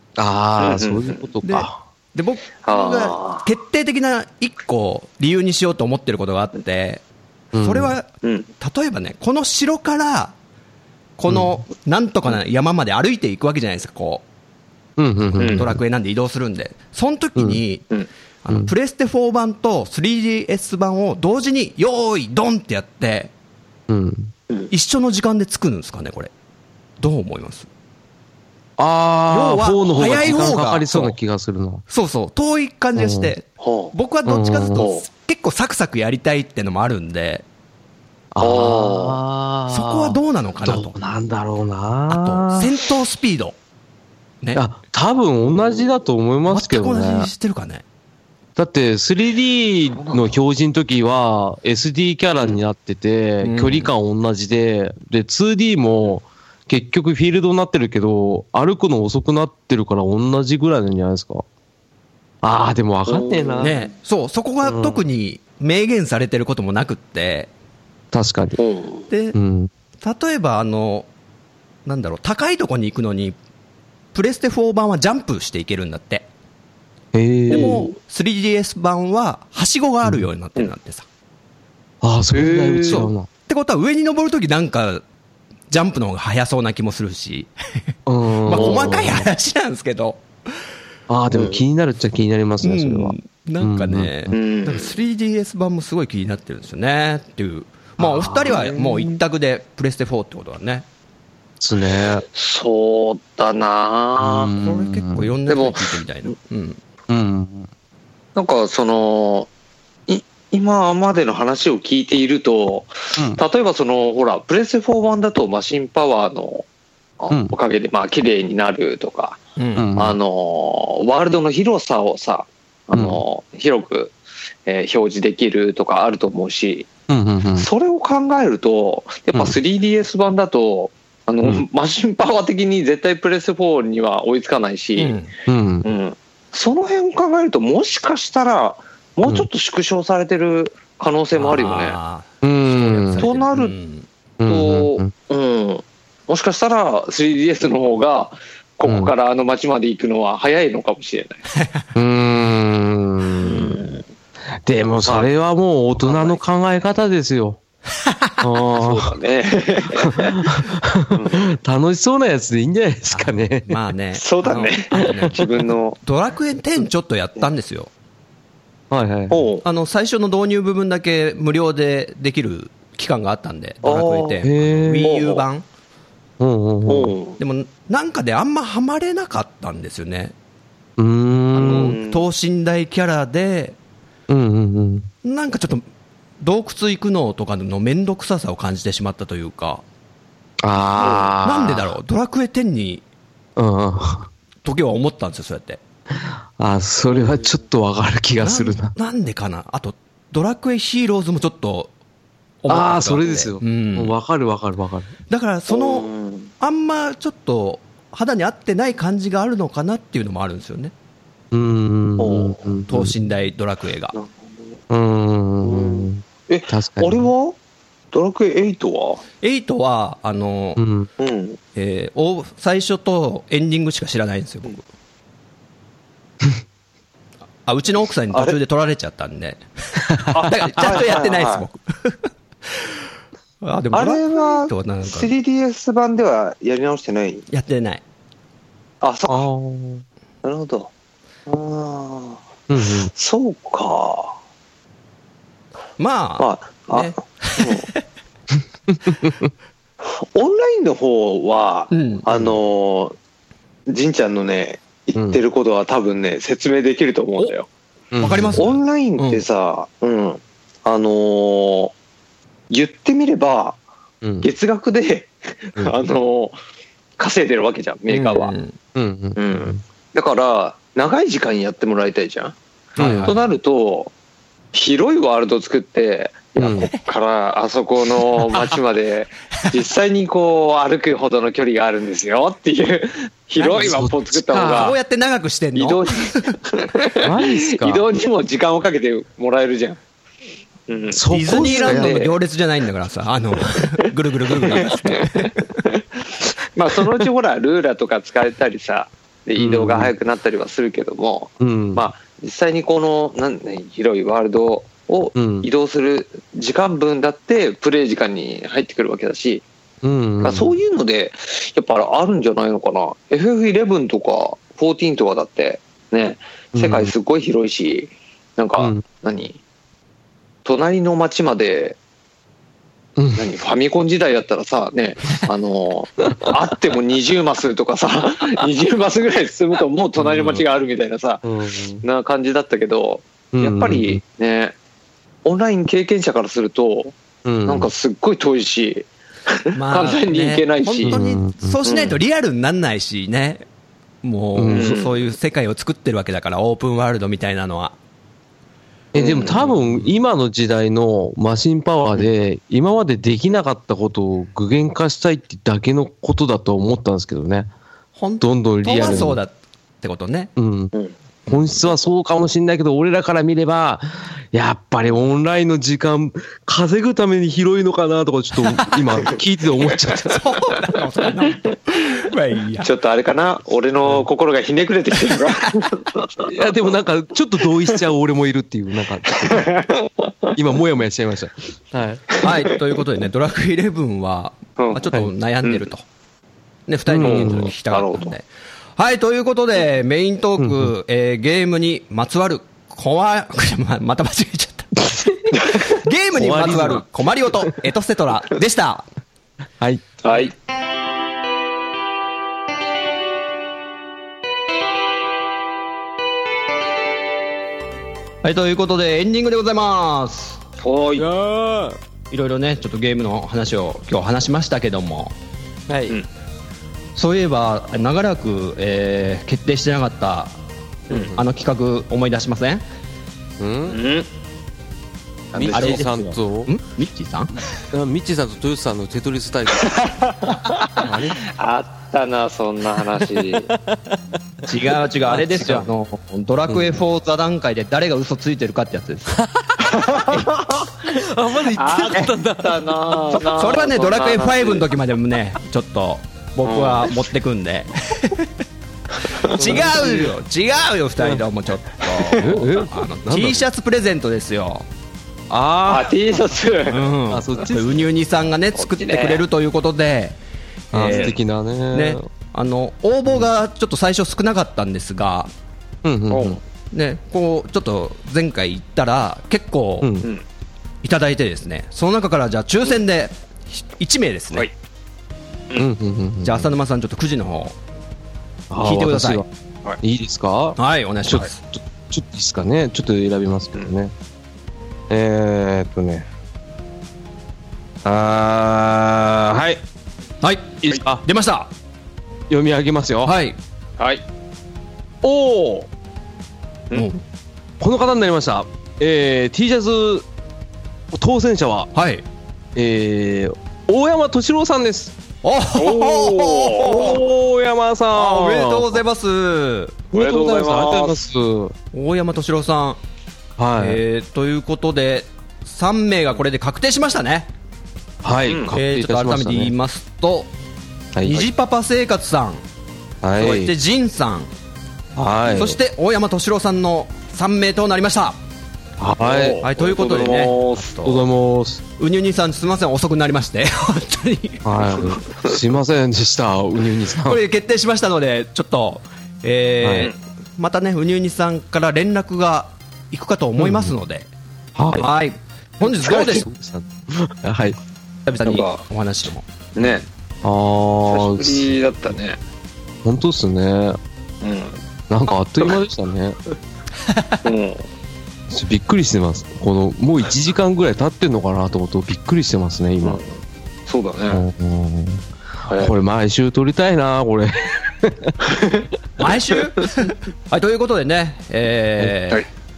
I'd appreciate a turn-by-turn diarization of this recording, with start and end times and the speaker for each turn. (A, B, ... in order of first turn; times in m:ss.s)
0:00.2-0:01.8 A
0:00.6-0:01.3 B
0:01.4-0:07.0 C
0:02.6-0:03.4 B
0:07.5-0:07.9 A
0:07.6-0:08.1 C
0:08.2-0:08.5 B
0:08.6-0:10.3 C
0:11.2-0:14.2 C
0:11.3-0:11.6 A
0:15.0-0:15.8 A
0:15.4-0:15.6 B
0:15.4-0:17.8 C
0:17.4-0:17.6 A
0:18.4-0:23.3 C
0:23.9-0:24.3 A
0:24.7-0:26.3 C
0:27.0-0:27.7 C
0:28.8-0:31.8 A
0:29.3-0:31.2 C
0:31.9-0:37.4 C
0:33.0-0:33.3 A
0:33.6-0:33.9 B
0:34.2-0:34.8 A
0:34.7-0:35.0 B
0:38.3-0:42.7 A
0:38.4-0:39.2 B
0:39.7-0:41.0 C
0:42.1-0:43.5 C
0:44.5-0:47.3 A
0:45.6-0:45.9 B
0:46.5-0:47.8 C
0:48.6-1:01.4 A
0:49.8-0:50.4 B
0:53.4-0:53.9 C
1:02.4-1:03.7 A
1:03.1-1:03.9 B
1:03.6-1:07.5 C
1:04.6-1:05.0 A
1:08.1-1:08.6 A
1:08.6-1:09.0 B
1:09.1-1:09.4 C
1:09.3-1:09.7 A
1:10.0-1:11.1 C
1:11.8-1:13.4 C
1:14.1-1:16.2 C
1:17.1-1:17.8 A
1:17.5-1:21.0 C
1:17.5-1:17.9 B
1:22.0-1:23.3 A
1:22.3-1:23.1 B
1:22.8-1:25.0 C
1:25.7-1:27.5 C
1:28.0-1:29.2 A
1:28.4-1:30.2 C
1:28.5-1:29.0 B
1:31.1-1:34.4 A
1:31.3-1:31.6 B
1:32.6-1:40.8 C
1:34.3-1:35.0 B
1:38.0-1:38.7 A
1:38.5-1:39.2 B
1:41.6-1:42.2 A
1:42.3-1:44.5 B
1:44.2-1:45.3 A
1:44.6-1:46.8 C
1:45.5-1:45.9 B
1:47.1-1:47.7 A
1:48.3-1:49.5 B
1:50.1-1:56.6 B
1:57.2-1:59.4 B
1:59.6-1:59.9 C
1:59.8-2:00.2 A
2:00.0-2:04.1 B
2:02.9-2:03.2 A
2:04.6-2:06.9 B
2:07.1-2:07.7 A
2:07.6-2:15.2 B
2:15.0-2:15.3 C
2:15.5-2:15.8 A
2:15.8-2:22.0 B
2:21.3-2:24.0 C
2:22.4-2:23.3 A
2:23.2-2:23.8 B
2:24.4-2:25.1 A
2:24.5-2:31.4 B
2:28.8-2:29.1 A
2:31.6-2:31.8 C
2:31.9-2:33.8 A
2:33.4-2:34.0 B
2:34.6-2:37.6 A
2:36.0-2:36.4 B
2:38.0-2:38.4 C
2:38.4-2:39.1 A
2:38.8-2:40.6 B
2:40.0-2:43.8 A
2:41.1-2:41.5 B
2:43.1-2:45.5 C
2:44.2-2:46.0 B
2:46.0-2:47.9 C
2:48.9-2:49.4 A
2:49.3-2:49.6 B
2:49.6-2:55.6 C
2:53.8-2:54.4 B
2:54.4-2:55.1 A
2:55.0-2:55.4 B
2:56.4-2:57.1 A
2:56.9-2:57.4 B
2:57.4-3:00.3 C
3:01.0-3:02.0 A
3:01.6-3:02.3 B
3:01.6-3:03.8 C
3:04.3-3:05.1 A
3:05.2-3:05.8 C
3:06.4-3:09.8 C
3:10.6-3:11.9 A
3:11.0-3:11.3 B
3:11.4-3:13.0 C
3:13.6-3:14.3 A
3:14.6-3:15.8 C
3:16.1-3:18.9 A
3:17.1-3:17.5 B
3:18.4-3:21.9 C
3:22.6-3:24.1 C
3:22.7-3:25.1 A
3:25.3-3:26.1 C
3:25.7-3:26.5 B
3:26.6-3:30.9 C
3:31.5-3:33.1 A
3:32.2-3:32.6 B
3:32.9-3:34.1 C
3:34.9-3:37.3 A
3:35.6-3:37.6 B
3:38.1-3:39.2 B
3:39.4-3:40.8 C
3:40.8-3:41.1 A
3:41.2-3:41.6 B
3:41.7-3:44.8 C
3:47.6-3:52.2 C
3:48.3-3:48.6 B
3:50.1-3:51.0 A
3:50.3-3:51.7 B
3:53.6-3:55.3 C
3:53.9-3:57.4 B
3:57.5-3:58.0 C
3:59.0-3:59.5 B
3:59.3-4:00.0 A
4:00.4-4:00.9 B
4:01.5-4:04.4 B
4:02.7-4:03.1 A
4:06.0-4:08.0 C
4:06.4-4:07.9 B
4:08.9-4:09.5 A
4:10.0-4:13.2 B
4:11.9-4:12.2 C
4:12.3-4:12.6 A
4:13.9-4:17.7 B
4:15.1-4:15.4 A
4:18.1-4:18.7 A
4:18.2-4:19.4 C
4:18.5-4:21.9 B
4:22.7-4:23.8 B
4:24.2-4:24.5 A
4:24.4-4:26.6 B
4:27.2-4:28.5 B
4:28.1-4:28.8 C
4:28.9-4:29.8 A
4:29.4-4:32.6 B
4:33.0-4:33.4 C
4:33.0-4:33.3 A
4:33.2-4:34.1 B
4:34.7-4:45.0 B
4:36.6-4:36.9 A
4:43.6-4:44.9 A
4:43.6-4:43.9 C
4:44.7-4:46.5 C
4:45.7-4:50.0 B
4:47.2-4:48.0 A
4:50.9-4:52.3 B
4:51.1-4:52.2 A
4:51.3-4:55.5 C
4:54.6-5:09.6 B
4:56.9-4:57.3 A
4:59.6-5:00.1 A
5:01.6-5:02.1 A
5:05.3-5:05.6 A
5:10.0-5:10.8 A
5:10.4-5:19.6 B
5:16.7-5:17.1 A
5:18.8-5:19.0 A
5:20.6-5:22.0 B
5:23.2-5:23.4 A
5:23.3-5:31.4 B
5:30.2-5:30.6 A
5:31.4-5:32.0 A
5:32.0-5:34.7 B
5:33.5-5:34.2 A
5:35.4-5:41.2 B
5:37.4-5:37.9 A
5:39.7-5:43.6 C
5:41.0-5:41.8 A
5:41.8-5:42.2 B
5:44.2-5:47.9 C
5:44.6-5:44.9 A
5:44.7-5:45.2 B
5:49.1-5:57.7 A
5:49.1-5:49.7 B
5:49.7-5:50.0 C
5:58.2-6:00.5 C
5:58.4-5:59.4 A
6:00.6-6:00.9 A
6:00.9-6:01.6 B
6:01.4-6:10.4 A
6:10.2-6:12.9 C
6:12.8-6:16.5 B
6:16.4-6:19.7 A
6:19.3-6:20.6 B
6:20.5-6:22.4 A
6:22.3-6:22.7 B
6:22.4-6:26.0 C
6:24.8-6:25.1 B
6:26.9-6:28.4 C
6:27.1-6:27.7 A
6:27.2-6:28.3 B
6:29.0-6:35.1 C
6:30.6-6:30.9 A
6:35.6-6:35.9 B
6:35.7-6:39.0 C
6:36.3-6:37.0 A
6:40.2-6:40.5 B
6:48.4-6:50.6 C
6:50.8-6:51.2 B
6:51.2-6:52.0 A
6:52.3-6:55.3 C
6:55.9-6:56.2 A
6:57.1-7:00.5 C
7:01.1-7:01.4 A
7:01.3-7:02.8 C
7:03.6-7:04.0 A
7:03.9-7:04.3 B
7:05.5-7:06.7 A
7:05.5-7:05.9 B
7:05.6-7:07.6 C
7:07.9-7:10.1 A
7:09.8-7:13.7 B
7:11.0-7:11.4 A
7:13.2-7:14.2 A
7:14.7-7:19.4 C
7:15.3-7:15.9 A
7:19.4-7:19.7 A
7:19.9-7:20.9 B
7:21.0-7:23.4 A
7:21.7-7:24.9 B
7:23.6-7:28.5 C
7:26.6-7:27.1 B
7:29.4-7:34.8 C
7:29.6-7:30.3 A
7:32.4-7:33.6 A
7:35.5-7:36.5 A
7:35.8-7:37.1 B
7:36.9-7:40.4 C
7:37.3-7:38.1 A
7:38.8-7:39.4 B
7:40.9-7:41.3 C
7:40.9-7:42.2 A
7:41.1-7:41.4 B
7:41.9-7:45.5 C
7:46.0-7:46.6 A
7:46.3-7:46.6 B
7:46.9-7:50.1 C
7:50.0-7:50.3 A
7:51.0-7:54.7 C
7:55.8-7:56.7 A
7:56.4-7:57.8 C
7:58.7-7:59.4 A
7:58.8-7:59.4 C
8:00.0-8:04.1 A
8:00.8-8:01.6 C
8:05.1-8:06.3 A
8:08.0-8:09.8 A
8:10.4-8:11.7 C
8:10.8-8:11.2 A
8:12.5-8:13.3 A
8:13.2-8:13.6 C
8:15.2-8:15.9 A
8:16.9-8:17.2 C
8:17.8-8:20.2 A
8:21.1-8:21.9 A
8:21.9-8:22.2 C
8:22.7-8:25.1 A
8:25.4-8:27.2 C
8:25.8-8:27.2 B
8:26.8-8:29.0 A
8:28.1-8:30.0 C
8:30.1-8:31.2 B
8:30.1-8:31.7 A
8:31.9-8:33.0 C
8:33.6-8:34.0 A
8:33.8-8:37.5 C
8:38.2-8:39.7 A
8:38.5-8:38.7 B
8:38.7-8:40.5 C
8:41.1-8:41.5 A
8:41.2-8:42.6 C
8:43.2-8:43.7 A
8:43.4-8:44.5 C
8:45.2-8:45.8 A
8:45.4-8:48.4 C
8:49.0-8:49.6 A
8:49.2-8:50.9 B
8:49.6-8:51.3 C
8:51.0-8:51.8 A
8:52.0-8:55.2 C
8:54.6-8:57.4 A
8:57.2-9:04.3 C
8:59.8-9:00.1 A
9:03.6-9:03.9 A
9:04.8-9:05.1 A
9:04.9-9:06.4 C
9:05.8-9:07.8 A
9:08.2-9:09.5 C
9:08.4-9:08.8 B
9:09.8-9:10.0 B
9:10.4-9:11.8 A
9:11.1-9:12.4 B
9:13.0-9:14.0 A
9:14.4-9:14.8 B
9:15.1-9:16.4 A
9:17.0-9:17.4 C
9:17.4-9:17.9 B
9:18.5-9:23.2 A
9:23.0-9:23.3 B
9:23.9-9:24.4 B
9:24.3-9:28.4 A
9:25.7-9:25.9 B
9:28.5-9:28.9 B
9:29.2-9:32.4 C